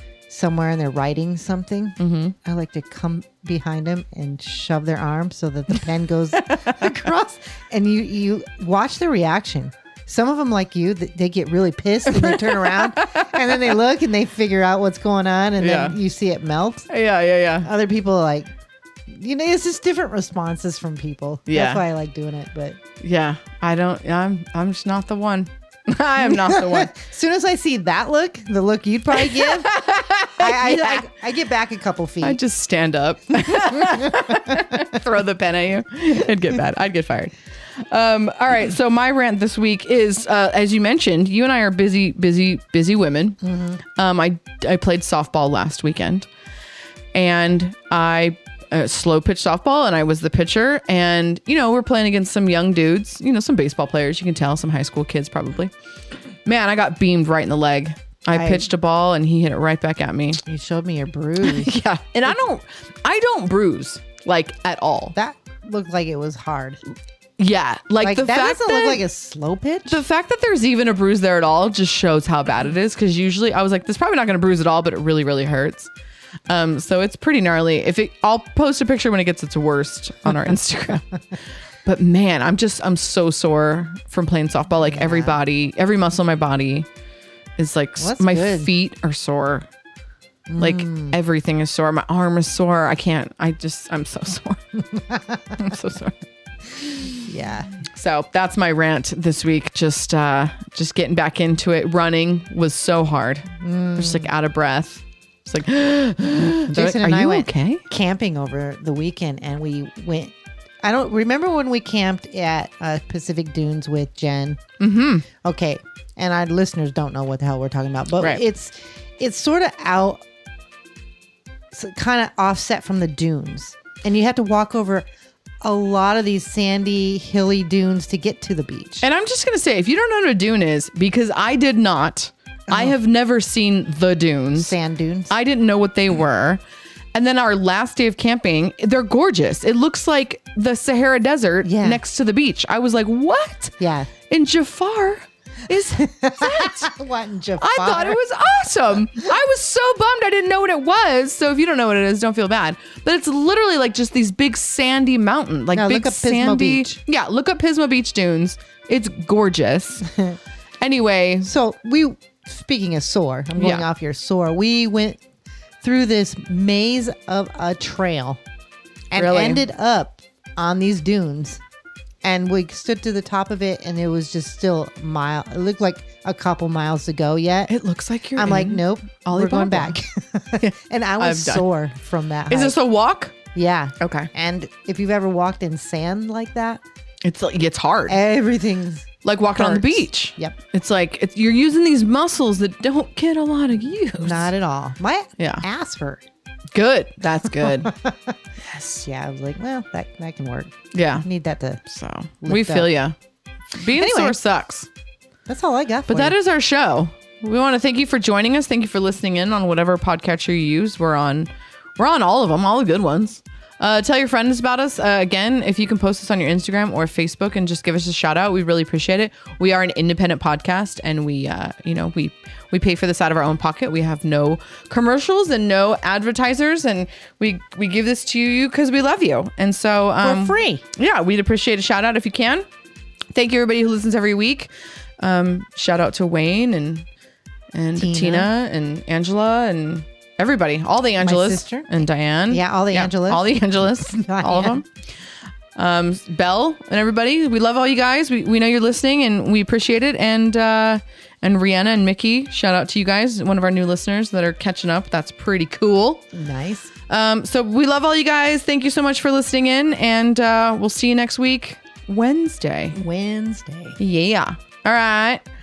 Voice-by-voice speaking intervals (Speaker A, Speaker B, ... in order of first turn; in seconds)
Speaker A: 0.3-16.9, 17.6-18.5, 19.1-22.8, 26.2-29.7, 30.4-32.4, 33.8-34.6, 43.4-43.8, 58.3-58.7, 60.4-61.7, 65.1-66.8, 68.0-70.0, 84.9-85.4, 88.0-88.7, 90.5-91.2, 94.9-95.7, 97.2-97.7, 103.6-104.3, 106.7-114.6, 115.3-120.2, 121.7-125.1, 125.6-129.1, 132.7-132.9, 134.6-135.3, 141.6-142.0, 143.8-144.1, 145.7-148.2, 155.7-157.0, 160.1-160.4, 161.4-165.2, 165.8-168.4, 169.1-171.6, 172.2-177.7, 178.3-182.8, 183.5-186.8, 188.1-190.6, 194.2-196.2, 197.6-201.8, 202.4-202.9, 203.9-204.3, 205.5-206.3, 230.2-230.8, 238.0-238.5, 241.2-241.9, 242.5-244.8, 256.3-256.9, 262.9-264.0
Speaker B: 2.0-2.3, 6.5-6.9, 12.1-13.6, 15.6-16.0, 16.9-17.7, 21.5-21.8, 23.0-26.9, 29.4-31.1, 32.2-43.4, 44.0-46.3, 47.1-55.7, 56.5-60.4, 61.4-65.1, 67.4-69.0, 69.9-75.9, 76.5-81.0, 81.8-86.9, 87.6-89.7, 90.6-94.6, 95.6-96.2, 96.8-97.1, 97.8-107.8, 114.8-115.2, 129.0-134.7, 135.3-136.6, 137.1-143.8, 144.3-146.9, 147.6-160.1, 160.8-161.5, 163.6-163.8, 169.2-169.6, 177.7-179.9, 180.6-181.6, 182.5-183.4, 184.0-184.3, 187.2-188.2, 189.2-194.5, 195.4-195.6, 196.7-197.9, 200.9-201.2, 201.8-203.1, 203.7-204.9, 206.1-232.6, 233.3-237.1, 237.7-244.8, 245.8-256.2, 257.1-263.0, 264.0-265.4